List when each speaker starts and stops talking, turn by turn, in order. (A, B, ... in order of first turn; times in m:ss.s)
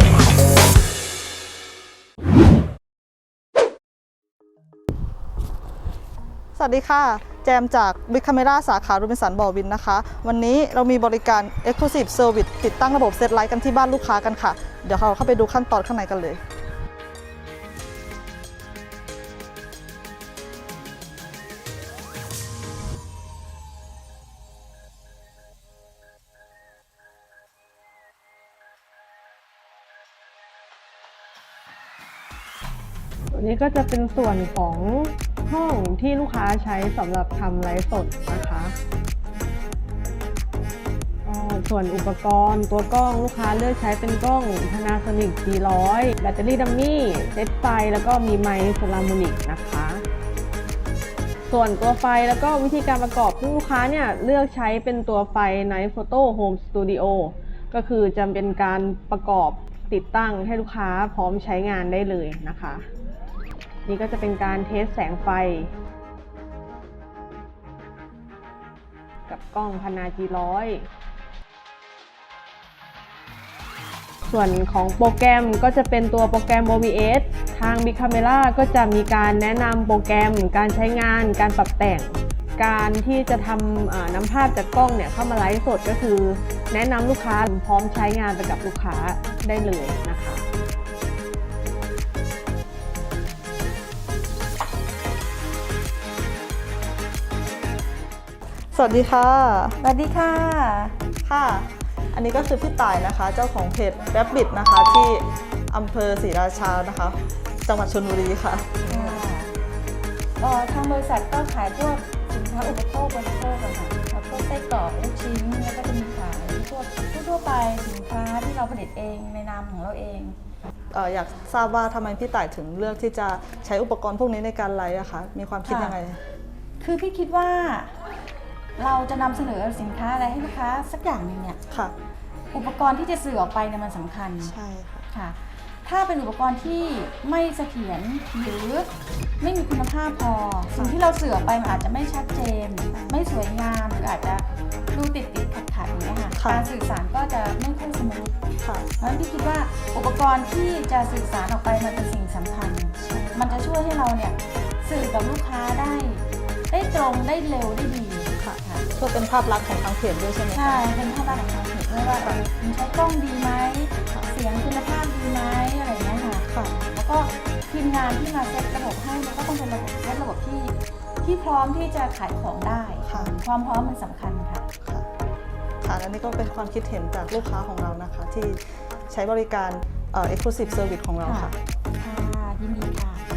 0:06.5-0:16.4 A
0:33.3-0:38.7 B
0:41.2-0:50.0 B
0:51.5-1:02.8 B
1:03.8-1:05.7 B
1:09.3-1:10.8 B
1:14.2-1:30.4 B
1:38.7-1:39.8 A
1:39.8-1:40.9 C
1:41.2-1:49.2 A
1:48.8-1:49.6 C
1:50.4-2:00.4 C
2:00.9-2:06.2 A
2:05.6-2:06.0 C
2:06.8-2:08.0 C
2:08.8-2:11.6 C
2:12.5-2:14.6 C
2:14.4-2:15.1 A
2:15.1-2:18.9 C
2:19.4-2:28.3 C
2:22.9-2:23.2 A
2:26.4-2:26.7 A
2:29.0-2:38.8 C
2:33.0-2:33.6 A
2:38.4-2:42.4 A
2:40.5-2:54.6 C
2:46.5-2:46.8 A
2:53.1-2:53.4 A
2:55.8-3:01.6 A
3:01.2-3:03.2 C